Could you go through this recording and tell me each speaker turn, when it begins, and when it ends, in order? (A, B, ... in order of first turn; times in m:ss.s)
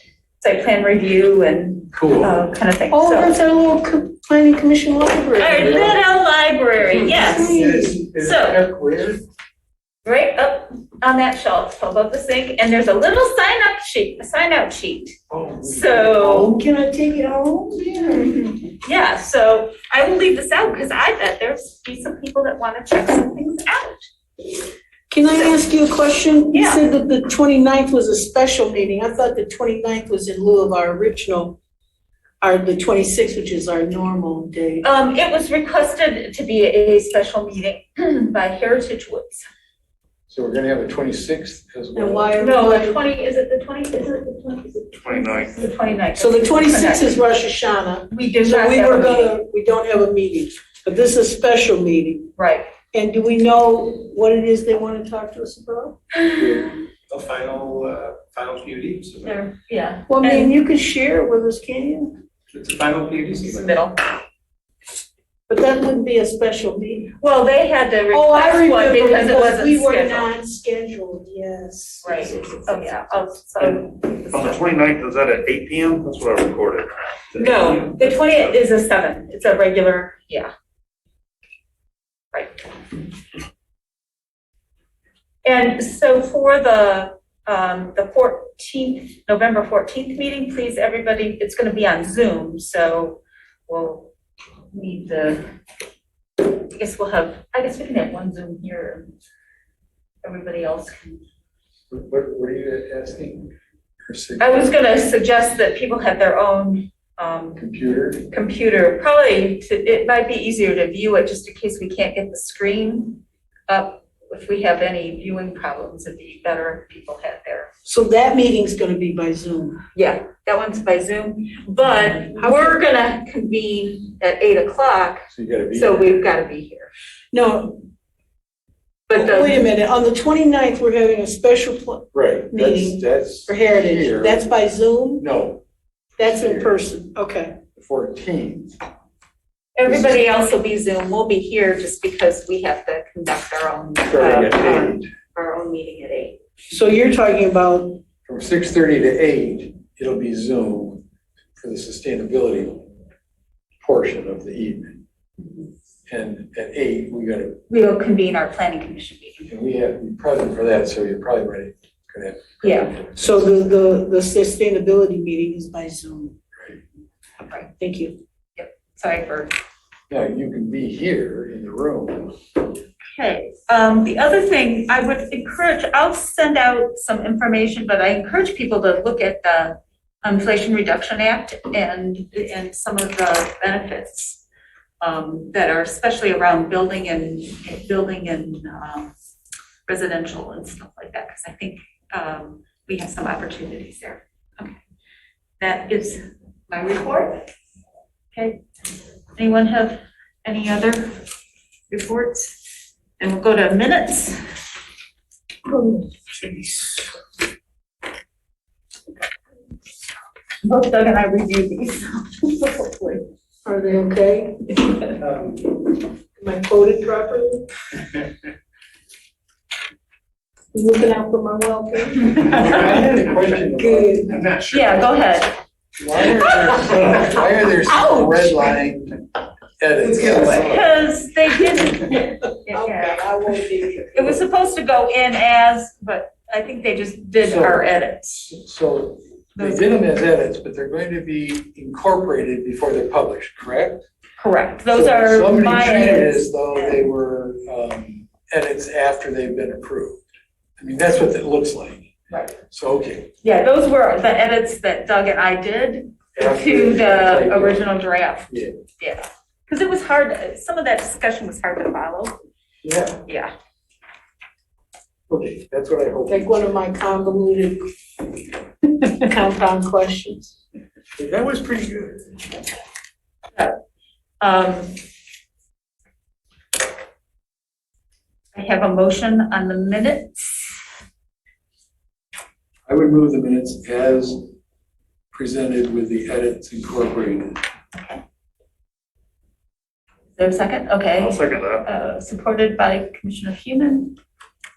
0:00.4-0:03.4 A
0:01.9-0:02.4 B
0:02.9-0:06.0 C
0:05.4-0:07.6 A
0:05.6-0:05.9 B
0:06.9-0:08.1 C
0:07.3-0:09.2 B
0:08.2-0:08.6 A
0:10.0-0:16.6 A
0:15.3-0:16.5 B
0:16.2-0:18.5 C
0:18.6-0:24.1 A
0:25.1-0:31.6 C
0:26.5-0:26.8 A
0:32.4-0:34.8 C
0:34.8-0:39.4 A
0:40.3-0:42.3 B
0:42.0-0:43.0 C
0:42.4-0:47.2 A
0:45.0-0:45.7 D
0:46.2-0:52.3 C
0:48.1-0:49.4 A
0:52.4-0:52.7 A
0:52.9-0:56.0 C
0:56.2-0:56.8 A
0:56.4-0:56.6 B
0:57.1-0:59.4 E
0:59.2-1:00.6 A
1:00.1-1:02.2 C
1:02.5-1:03.7 E
1:03.4-1:04.0 A
1:05.5-1:07.2 C
1:07.2-1:10.3 A
1:08.1-1:12.3 C
1:12.0-1:14.3 A
1:13.6-1:18.5 D
1:17.4-1:20.5 A
1:22.3-1:22.7 A
1:25.4-1:34.1 A
1:34.7-1:35.4 A
1:36.4-1:39.1 A
1:40.2-1:41.2 A
1:41.9-1:43.5 B
1:44.1-1:44.7 B
1:44.4-1:47.6 A
1:47.6-1:48.3 B
1:48.3-1:57.7 A
1:57.8-1:59.8 C
1:59.9-2:06.9 A
2:02.3-2:02.8 C
2:05.3-2:06.1 B
2:07.3-2:07.8 C
2:09.1-2:09.7 A
2:09.1-2:15.2 C
2:12.1-2:14.4 B
2:15.2-2:15.6 B
2:16.2-2:17.6 C
2:16.2-2:16.7 B
2:17.8-2:18.8 B
2:19.8-2:26.4 A
2:19.8-2:20.2 B
2:24.1-2:25.1 B
2:26.7-2:28.0 C
2:28.3-2:31.0 B
2:31.6-2:32.8 B
2:33.8-2:35.0 B
2:35.4-2:35.7 A
2:36.1-2:37.6 B
2:37.7-2:39.5 A
2:39.5-2:43.4 B
2:42.6-2:42.9 A
2:43.2-2:46.4 C
2:47.8-2:48.2 C
2:48.6-2:49.5 A
2:50.1-2:52.4 B
2:53.1-3:04.4 A
3:05.0-3:09.1 A
3:09.9-3:14.8 A
3:15.6-3:17.4 A
3:18.3-3:18.6 A
3:19.4-3:21.2 A
3:21.9-3:22.5 A
3:23.2-3:24.4 A
3:25.7-3:27.1 C
3:30.6-3:33.2 A
3:33.6-3:37.7 C
3:40.7-3:44.5 C
3:42.4-3:44.5 B
3:44.7-3:45.6 A
3:46.0-3:49.2 B
3:46.2-3:48.8 C
3:49.8-3:51.0 B
3:50.0-3:50.5 C
3:50.5-3:53.3 A
3:52.0-3:54.4 C
3:54.1-3:58.5 A
3:57.5-3:57.9 B
3:58.5-4:04.0 B
3:59.6-3:59.9 A
4:04.4-4:07.0 A
4:04.9-4:10.3 B
4:10.8-4:12.2 B
4:12.3-4:12.6 A
4:12.7-4:13.3 B
4:13.4-4:22.4 A
4:16.4-4:17.9 B
4:18.5-4:18.8 B
4:22.8-4:23.2 B
4:23.3-4:23.5 A
4:25.3-4:26.6 B
4:26.3-4:27.9 C
4:28.8-4:30.6 C
4:31.2-4:32.2 B
4:34.4-4:35.0 A
4:38.5-4:40.7 A
4:42.9-4:44.5 B
4:45.3-4:47.6 B
4:47.9-4:48.2 A
4:50.4-4:54.2 A
4:51.2-4:51.9 D